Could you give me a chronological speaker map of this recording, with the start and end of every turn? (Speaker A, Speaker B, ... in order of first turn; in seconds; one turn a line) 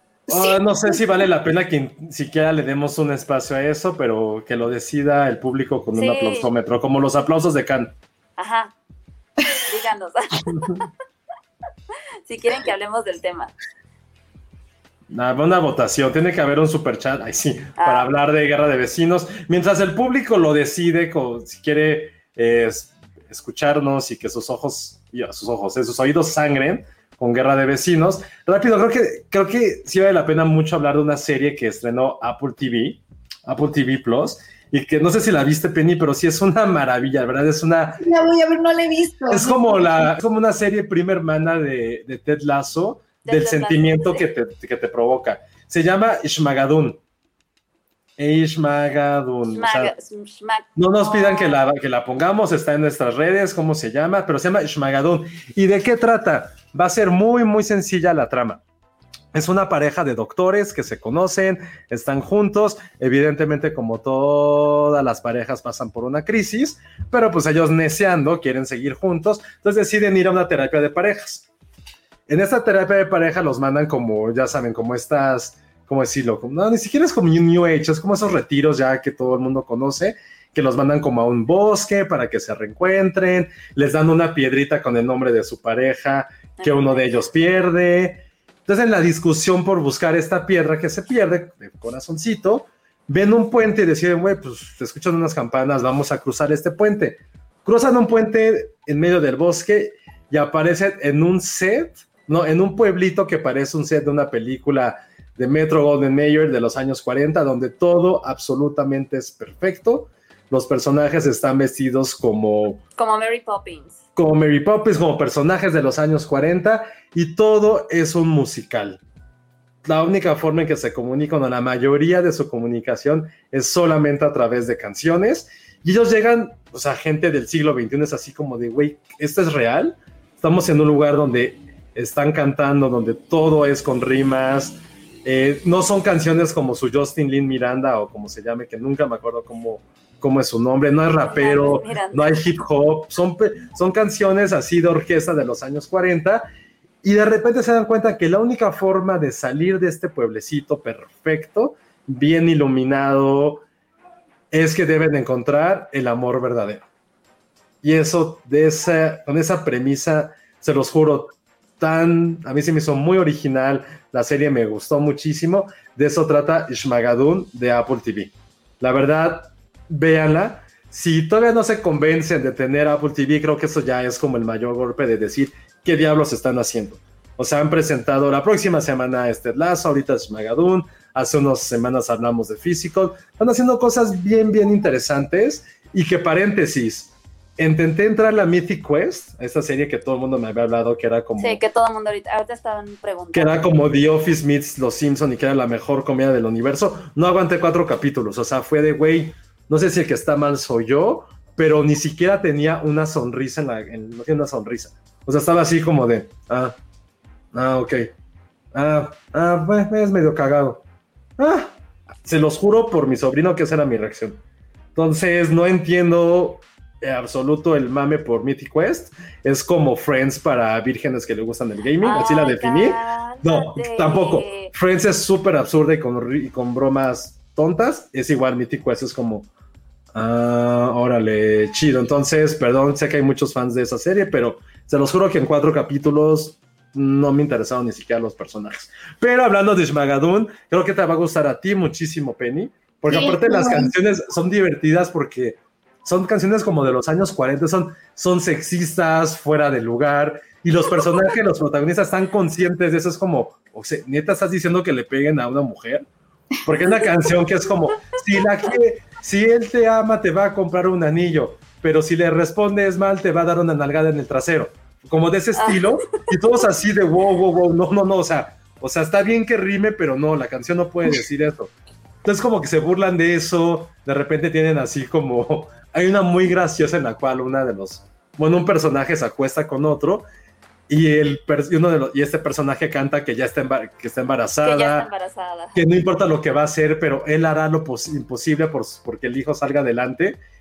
Speaker A: 0.3-8.0
Speaker B: 0.3-0.6
Speaker C: 5.9-6.5
Speaker C: 8.4-8.7
Speaker C: 9.6-10.8
Speaker C: 12.3-13.5
Speaker A: 15.1-38.0
Speaker C: 17.8-18.1
Speaker B: 38.0-40.1
Speaker A: 39.3-47.0
Speaker C: 43.2-44.2
Speaker A: 48.2-49.9
Speaker C: 49.5-51.6
Speaker A: 50.8-58.6
Speaker A: 59.3-71.5
Speaker A: 72.3-112.8
Speaker C: 86.6-87.1
Speaker C: 113.0-114.0
Speaker A: 114.2-119.0
Speaker A: 119.8-146.5
Speaker C: 141.2-142.3
Speaker A: 147.0-153.6
Speaker A: 154.5-156.8
Speaker A: 157.8-191.6
Speaker C: 191.4-193.7
Speaker A: 193.3-206.8
Speaker A: 207.5-208.1
Speaker A: 208.7-210.8
Speaker A: 211.4-214.4
Speaker A: 214.9-229.5
Speaker C: 222.0-224.7
Speaker A: 230.1-256.1
Speaker B: 243.1-243.9
Speaker A: 256.6-271.7
Speaker C: 265.6-265.9
Speaker A: 272.2-280.3
Speaker A: 280.9-285.1
Speaker C: 284.6-285.8
Speaker A: 285.7-290.4